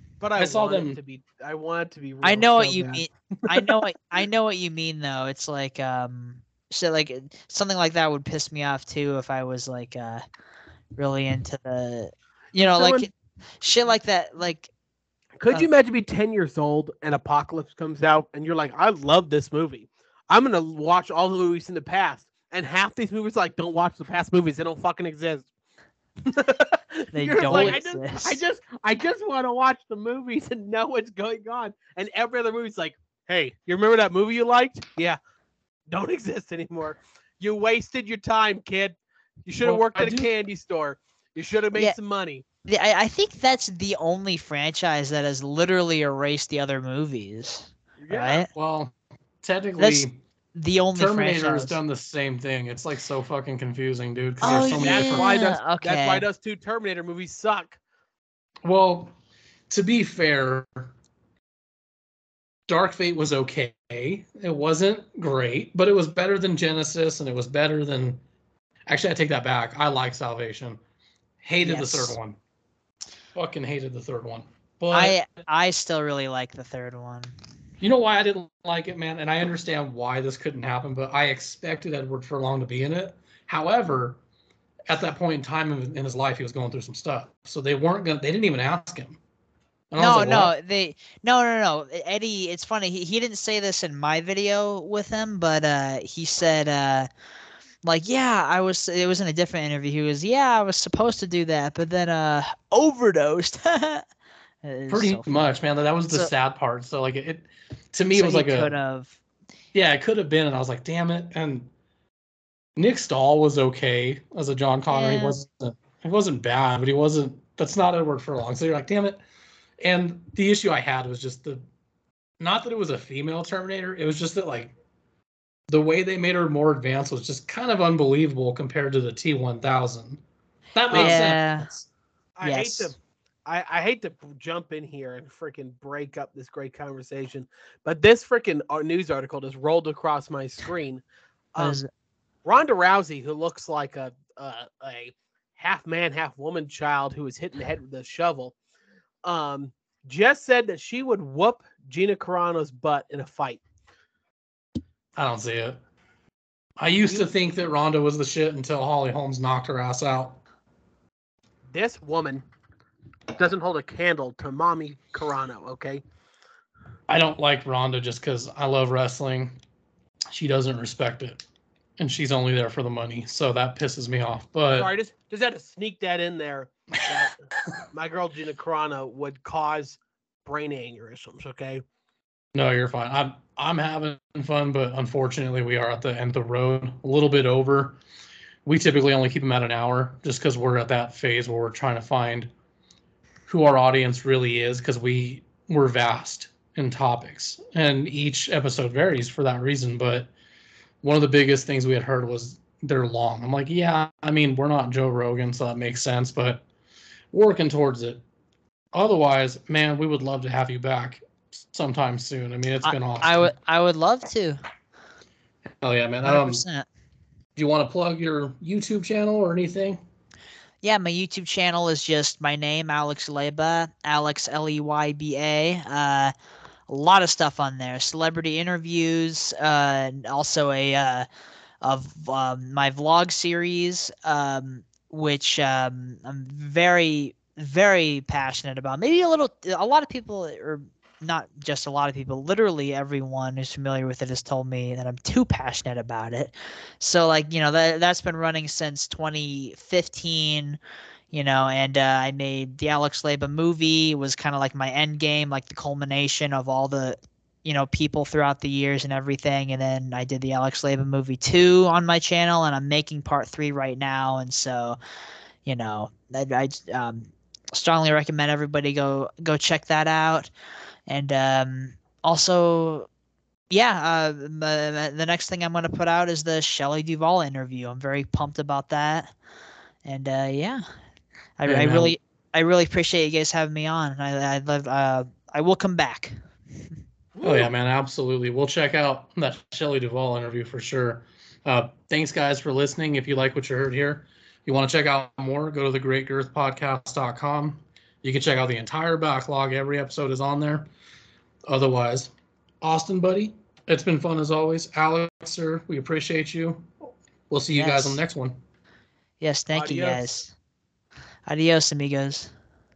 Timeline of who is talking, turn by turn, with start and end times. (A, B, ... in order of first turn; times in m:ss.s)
0:00.2-0:03.0 A
0:00.4-0:01.0 B
0:02.2-0:10.2 C
0:11.0-0:13.1 C
0:12.7-0:13.1 A
0:13.6-0:14.7 C
0:15.4-0:25.5 A
0:26.3-0:35.2 A
0:27.1-0:28.4 C
0:27.5-0:27.8 B
0:35.9-0:42.4 A
0:39.6-0:40.3 B
0:42.6-0:48.5 C
0:48.0-0:48.5 A
0:48.5-0:50.2 B
0:49.8-0:51.8 C
0:50.9-0:55.3 B
0:54.4-0:56.2 C
0:54.4-0:57.8 A
0:58.6-0:59.1 B
0:59.7-1:00.9 B
1:02.7-1:08.2 B
1:08.9-1:10.8 B
1:11.4-1:12.4 B
1:11.6-1:12.2 C
1:13.3-1:15.2 B
1:14.9-1:17.3 C
1:17.8-1:24.2 B
1:24.9-1:29.2 B
1:29.9-1:30.5 B
1:30.0-1:37.1 C
1:37.8-1:44.0 C
1:44.6-1:45.5 C
1:44.9-1:48.7 B
1:48.1-1:49.2 C
1:49.7-1:51.7 B
1:52.8-1:59.2 B
1:54.9-1:55.4 C
1:59.8-2:01.6 B
2:02.4-2:04.7 B
2:05.7-2:10.2 B
2:10.7-2:11.8 B
2:10.9-2:11.3 A
2:10.9-2:11.7 C
2:12.4-2:21.0 A
2:12.4-2:12.9 C
2:21.5-2:21.8 A
2:21.6-2:21.9 C
2:22.4-2:28.5 A
2:29.2-2:33.6 A
2:35.2-2:35.8 B
2:36.8-2:40.4 B
2:41.7-2:42.4 A
2:43.4-2:46.0 A
2:47.1-2:49.6 B
2:50.3-2:51.4 B
2:52.0-2:54.9 B
2:54.7-2:57.3 A
2:57.9-3:01.8 A
3:02.5-3:08.0 B
3:08.6-3:12.5 B
3:13.5-3:20.3 B
3:21.0-3:26.6 B
3:27.3-3:28.2 B
3:28.9-3:33.5 B
3:32.8-3:34.6 C
3:35.8-3:36.6 B
3:36.2-3:36.8 C
3:37.6-3:40.0 B
3:40.8-3:46.3 C
3:46.9-3:51.3 C
3:51.8-4:10.8 C
4:11.3-4:25.0 C
4:25.6-4:30.5 C
4:31.1-4:33.1 C
4:33.7-4:39.3 C
4:40.0-4:40.8 C
4:41.6-4:46.3 C
4:41.6-4:42.1 B
4:47.3-4:47.7 A
4:47.4-5:00.9 B
5:01.6-5:06.9 B
5:07.5-5:08.6 B
5:07.7-5:08.2 C
5:09.4-5:10.5 C
5:09.7-5:10.3 A
5:11.4-5:12.5 C